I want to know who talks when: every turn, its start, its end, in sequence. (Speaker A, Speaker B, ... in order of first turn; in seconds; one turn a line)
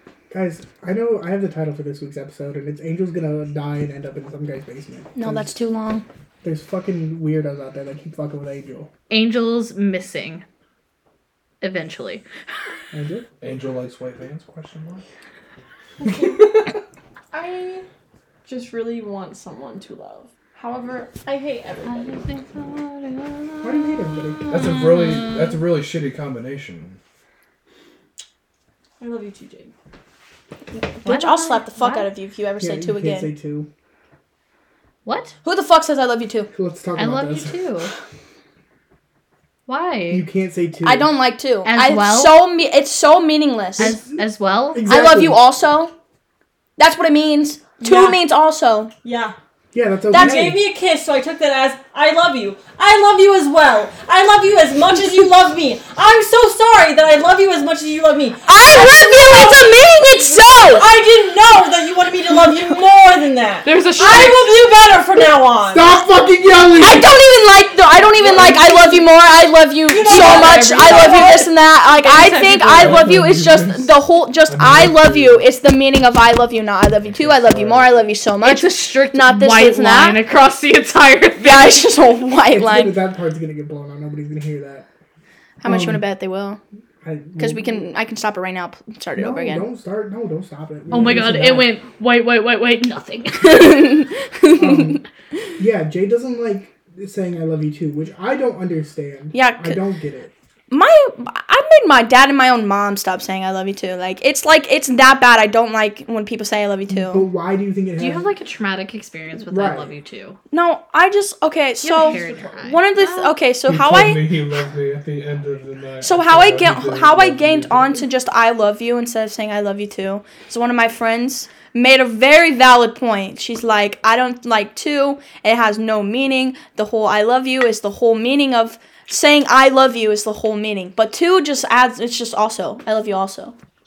Speaker A: 0.3-5.5
Speaker B: 5.2-6.0
Speaker A: 6.4-8.9
Speaker C: 9.1-10.4
Speaker C: 11.6-12.2
Speaker A: 12.9-13.3
Speaker D: 13.4-15.0
Speaker E: 16.0-16.6
Speaker D: 16.1-16.7
Speaker E: 17.3-17.9
Speaker E: 18.4-22.2
Speaker C: 21.9-25.6
Speaker A: 23.6-24.5
Speaker D: 24.5-27.0
Speaker E: 29.0-29.7
Speaker B: 31.0-33.3
Speaker C: 31.0-32.1
Speaker A: 32.6-33.7
Speaker C: 35.0-35.4
Speaker B: 35.4-36.5
Speaker A: 36.5-37.6
Speaker C: 37.0-37.9
Speaker C: 39.7-40.2
Speaker A: 40.1-41.1
Speaker B: 40.8-44.0
Speaker C: 41.6-42.4
Speaker C: 43.8-44.9
Speaker A: 43.8-45.4
Speaker B: 44.9-45.9
Speaker B: 46.8-48.9
Speaker E: 47.8-48.2
Speaker E: 49.0-49.4
Speaker A: 49.7-50.6
Speaker E: 50.1-65.9
Speaker B: 50.1-50.5
Speaker B: 58.5-60.9
Speaker C: 63.6-64.5
Speaker A: 65.7-67.1
Speaker B: 66.8-80.2
Speaker E: 68.2-69.1
Speaker E: 69.9-73.0
Speaker C: 70.0-71.3
Speaker D: 72.7-75.5
Speaker D: 77.0-78.1
Speaker C: 78.4-81.9
Speaker B: 81.4-83.0
Speaker A: 82.5-84.9
Speaker B: 85.6-86.6
Speaker A: 85.6-86.0
Speaker A: 87.0-87.9
Speaker B: 87.4-89.7
Speaker A: 89.2-91.7
Speaker C: 90.9-93.9
Speaker B: 93.4-95.0
Speaker A: 94.6-95.0
Speaker A: 95.6-100.3
Speaker B: 99.3-99.8
Speaker B: 100.7-107.3
Speaker A: 106.9-108.3
Speaker C: 108.0-110.4
Speaker A: 109.5-109.9
Speaker B: 110.5-114.3
Speaker E: 111.8-112.8
Speaker C: 111.9-113.4
Speaker D: 113.7-118.0
Speaker B: 116.0-133.6